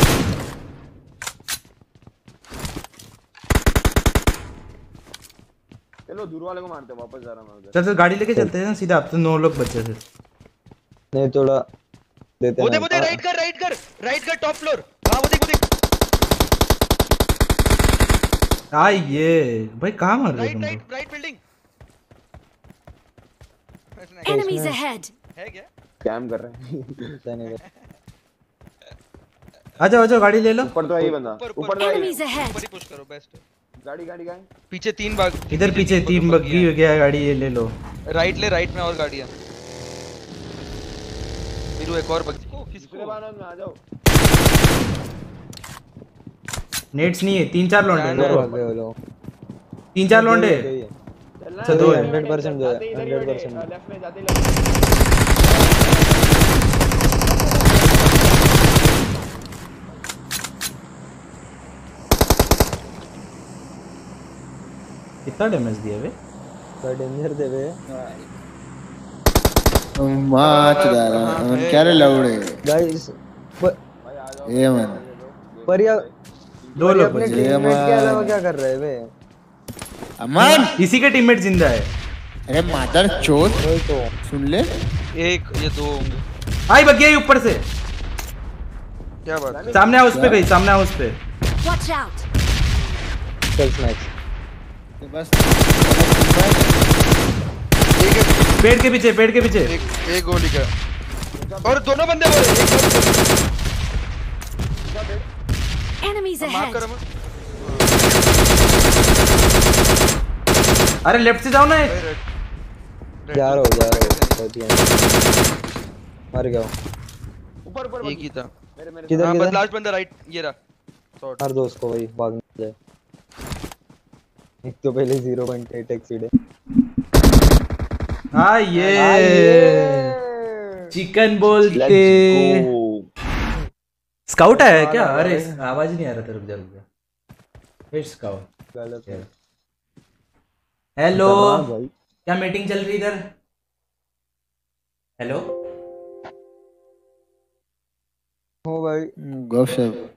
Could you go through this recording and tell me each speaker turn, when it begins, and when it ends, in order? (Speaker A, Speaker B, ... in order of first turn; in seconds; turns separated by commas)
Speaker A: 6.1-7.8, Speaker B: 7.8-10.0, Speaker C: 11.1-11.6, Speaker C: 12.4-13.2, Speaker D: 12.6-15.6, Speaker B: 18.7-20.8, Speaker D: 20.4-21.4, Speaker D: 24.0-24.5, Speaker E: 24.3-25.1, Speaker C: 24.3-24.8, Speaker D: 25.4-25.7, Speaker A: 26.0-27.1, Speaker C: 27.2-27.6, Speaker D: 27.5-27.9, Speaker B: 29.8-30.7, Speaker A: 30.6-32.1, Speaker D: 31.0-33.4, Speaker E: 31.8-32.6, Speaker A: 33.8-34.5, Speaker D: 34.7-36.7, Speaker B: 35.5-37.7, Speaker D: 38.1-39.3, Speaker D: 41.8-43.2, Speaker A: 42.8-43.8, Speaker B: 46.9-48.5, Speaker D: 47.9-48.6, Speaker C: 48.1-48.9, Speaker B: 50.0-50.7, Speaker C: 50.1-50.9, Speaker A: 51.4-54.6, Speaker C: 51.6-53.7, Speaker B: 51.7-52.1, Speaker A: 55.5-56.2, Speaker A: 57.4-58.2, Speaker B: 65.2-66.1, Speaker C: 66.8-67.7, Speaker F: 70.0-72.6, Speaker D: 70.4-72.3, Speaker C: 72.7-73.1, Speaker A: 74.0-76.1, Speaker F: 74.5-75.0, Speaker C: 75.7-76.0, Speaker A: 76.6-77.0, Speaker B: 76.8-77.4, Speaker C: 76.8-79.0, Speaker F: 77.2-78.4, Speaker F: 80.2-80.8, Speaker B: 80.8-81.9, Speaker F: 82.5-83.6, Speaker A: 82.7-83.5, Speaker C: 83.6-84.1, Speaker F: 84.2-84.7, Speaker D: 85.2-86.2, Speaker B: 86.7-87.6, Speaker D: 89.3-89.8, Speaker A: 89.5-90.2, Speaker B: 89.7-91.2, Speaker F: 90.1-90.5, Speaker E: 91.6-92.2, Speaker C: 93.6-94.1, Speaker F: 95.0-96.7, Speaker D: 98.0-98.5, Speaker B: 98.6-99.7, Speaker D: 99.6-100.7, Speaker A: 101.4-101.9, Speaker D: 101.6-103.3, Speaker A: 104.9-105.3, Speaker E: 106.0-106.8, Speaker D: 106.4-107.0, Speaker D: 107.6-108.0, Speaker B: 111.0-111.9, Speaker D: 111.9-112.2, Speaker D: 113.3-114.4, Speaker C: 113.3-115.2, Speaker C: 116.3-116.7, Speaker A: 117.7-119.3, Speaker D: 118.0-118.5, Speaker C: 119.1-119.6, Speaker D: 119.2-120.5, Speaker C: 121.4-122.8, Speaker C: 124.7-126.3, Speaker B: 128.3-130.1, Speaker C: 128.9-130.4, Speaker B: 130.9-132.7, Speaker A: 131.7-133.0, Speaker B: 134.3-136.8, Speaker C: 134.6-134.9, Speaker A: 134.9-135.4, Speaker B: 137.9-138.5, Speaker C: 138.8-139.2, Speaker B: 141.0-141.7, Speaker A: 141.2-141.9, Speaker B: 142.3-143.2, Speaker B: 145.2-145.4, Speaker C: 148.7-149.1, Speaker F: 149.2-150.1